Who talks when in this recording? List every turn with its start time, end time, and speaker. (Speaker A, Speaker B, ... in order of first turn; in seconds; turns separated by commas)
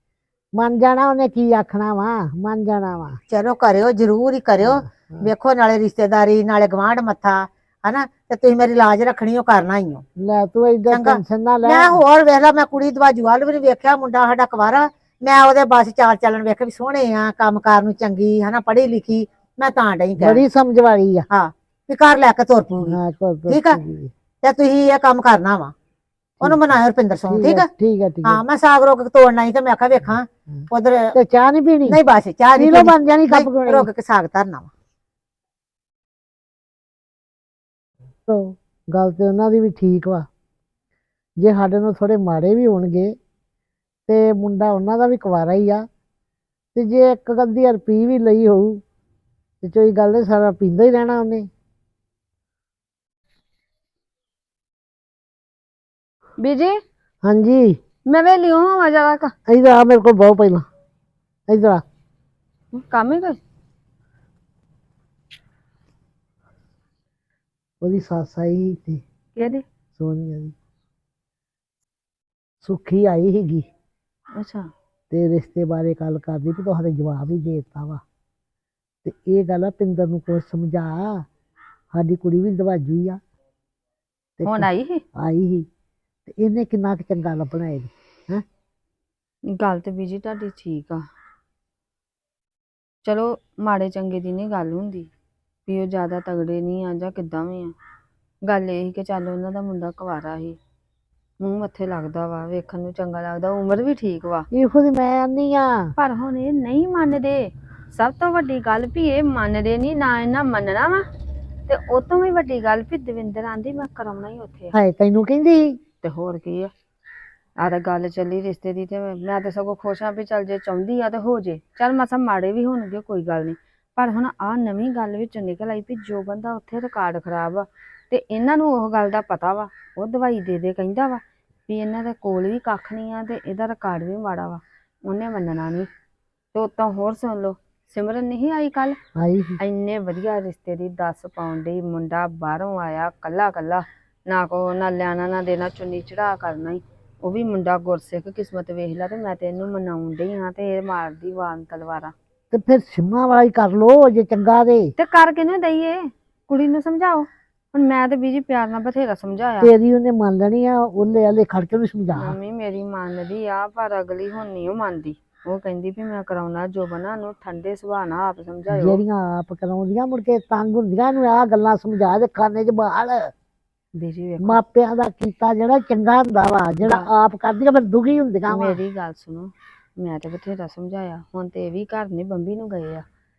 Speaker A: 0.6-3.2, Speaker B: 3.3-10.0, Speaker A: 4.6-5.3, Speaker A: 10.2-12.0, Speaker B: 10.9-20.4, Speaker A: 20.2-21.3, Speaker B: 21.3-23.0, Speaker A: 22.9-24.1, Speaker B: 23.5-23.8, Speaker B: 24.4-25.7, Speaker A: 26.4-28.4, Speaker B: 26.4-27.7, Speaker B: 28.2-31.1, Speaker A: 31.1-32.0, Speaker B: 31.9-34.7, Speaker A: 32.5-33.9, Speaker A: 38.3-40.2, Speaker A: 41.4-43.1, Speaker A: 44.1-45.9, Speaker A: 46.7-48.8, Speaker A: 49.6-51.5, Speaker C: 56.4-56.8, Speaker A: 57.2-57.8, Speaker C: 58.0-59.3, Speaker A: 59.5-60.6, Speaker A: 61.5-61.8, Speaker C: 62.7-63.4, Speaker A: 67.8-69.0, Speaker C: 69.3-69.6, Speaker A: 70.0-70.5, Speaker A: 72.6-73.7, Speaker C: 74.3-74.7, Speaker A: 75.1-78.0, Speaker A: 79.0-81.2, Speaker A: 81.9-83.2, Speaker A: 84.4-85.7, Speaker C: 84.4-85.0, Speaker A: 86.3-88.4, Speaker C: 89.5-91.0, Speaker C: 93.0-95.1, Speaker C: 95.7-97.7, Speaker C: 98.4-100.6, Speaker C: 101.4-104.5, Speaker A: 104.5-105.9, Speaker C: 106.0-111.0, Speaker C: 111.7-114.7, Speaker A: 114.7-115.8, Speaker C: 116.0-116.7, Speaker C: 117.6-135.9, Speaker C: 136.5-139.0, Speaker A: 139.2-139.6, Speaker C: 139.6-152.1, Speaker A: 152.5-154.9, Speaker C: 155.0-159.7, Speaker A: 159.6-162.3, Speaker C: 162.1-169.0, Speaker A: 168.7-173.3, Speaker C: 173.9-174.6, Speaker A: 174.4-178.8, Speaker C: 178.5-183.1